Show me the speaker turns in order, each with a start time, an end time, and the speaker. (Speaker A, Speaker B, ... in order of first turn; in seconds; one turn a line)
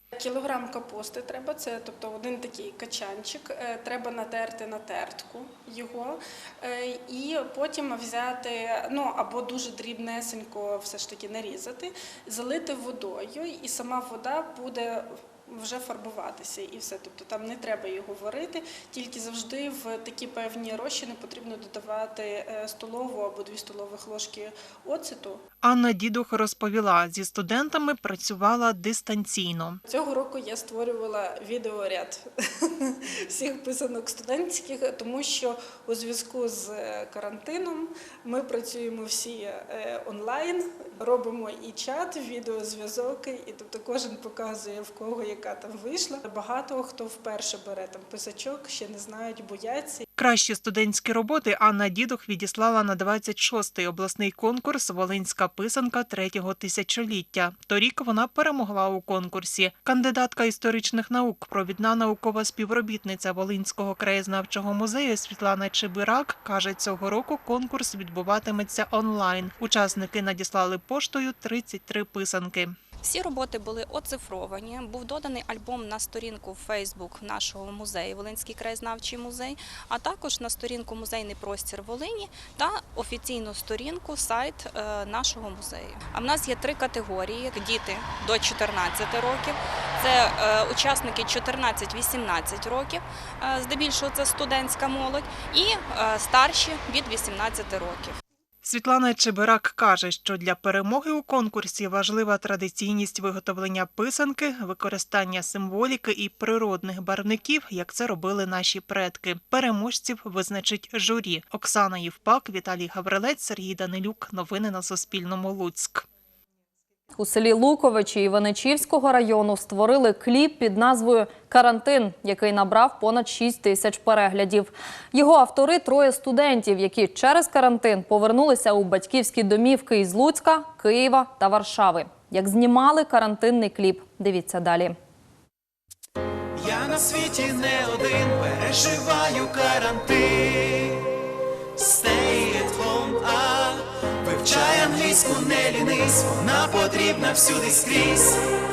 Speaker A: 0.2-25.4
Speaker B: 25.6-29.8
Speaker A: 29.9-50.0
Speaker B: 50.2-72.8
Speaker C: 73.0-98.2
Speaker B: 98.6-116.1
Speaker D: 117.2-134.9
Speaker E: 136.6-140.9
Speaker E: 141.8-148.4